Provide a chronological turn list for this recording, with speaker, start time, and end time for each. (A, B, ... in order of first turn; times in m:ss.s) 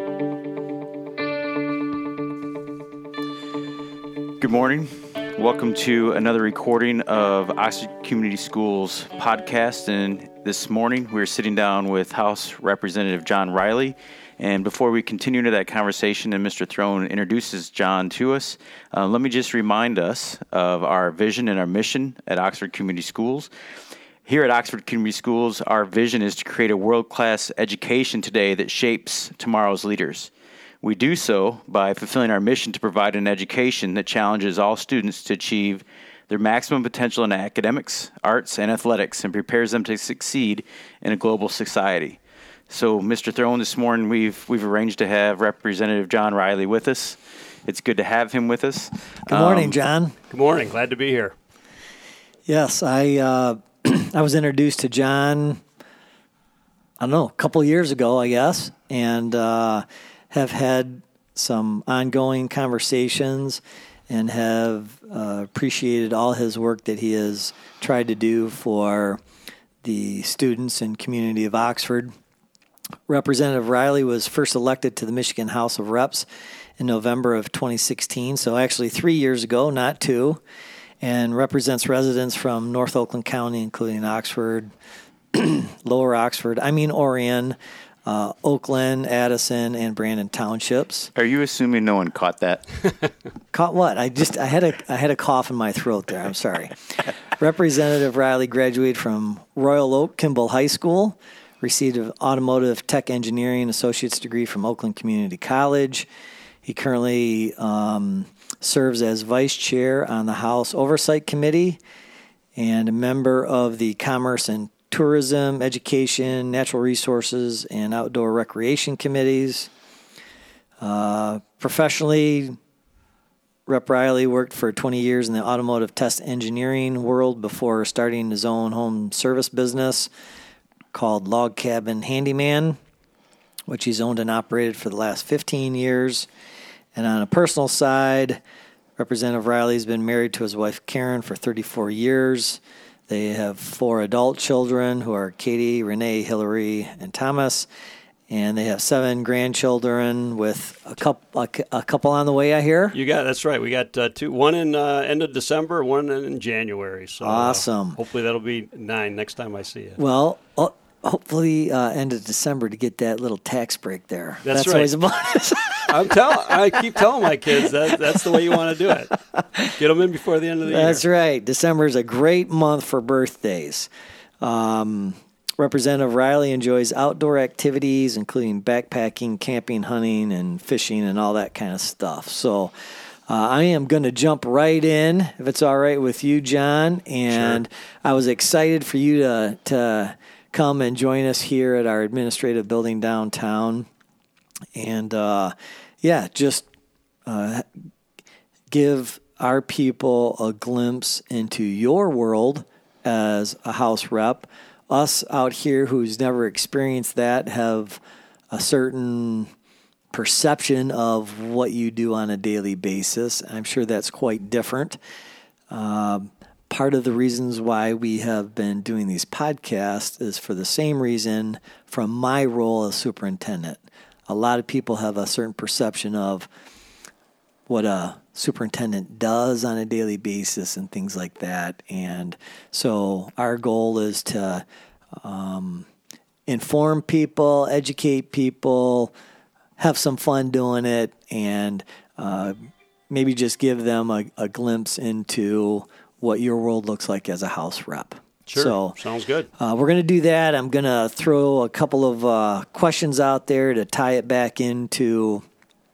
0:04.4-0:23.5 A
0:24.3-0:30.3 A
0:30.8-0:49.8 A
0:49.3-0:50.2 B
0:50.3-0:51.4 C
0:52.5-0:55.6 B
0:57.0-1:09.2 B
1:09.8-1:12.1 B
1:13.1-1:16.3 B
1:16.8-1:20.4 B
1:21.0-1:24.7 B
1:25.3-1:31.1 B
1:31.2-1:32.8 A
1:33.5-1:46.1 B
1:46.6-1:51.8 B
1:52.6-1:59.7 B
2:00.8-2:02.6 B
2:03.7-2:10.1 B
2:10.9-2:12.8 B
2:13.7-2:16.3 B
2:16.9-2:18.4 B
2:19.0-2:27.7 B
2:28.3-2:33.0 B
2:32.9-2:40.0 C
2:37.2-2:38.0 B
2:40.0-2:46.2 B
2:44.4-2:44.9 C
2:45.9-2:49.1 C
2:49.4-2:49.7 B
2:49.7-2:51.0 C
2:50.7-2:53.9 B
2:54.4-3:02.7 B
3:03.3-3:13.9 B
3:14.8-3:16.7 B
3:17.3-3:17.7 B
3:18.7-3:29.5 B
3:30.1-3:35.0 B
3:35.7-3:46.5 B
3:47.7-3:55.9 B
3:56.5-3:59.1 B
3:59.8-4:09.0 B
4:08.5-4:09.5 C
4:09.6-4:15.4 B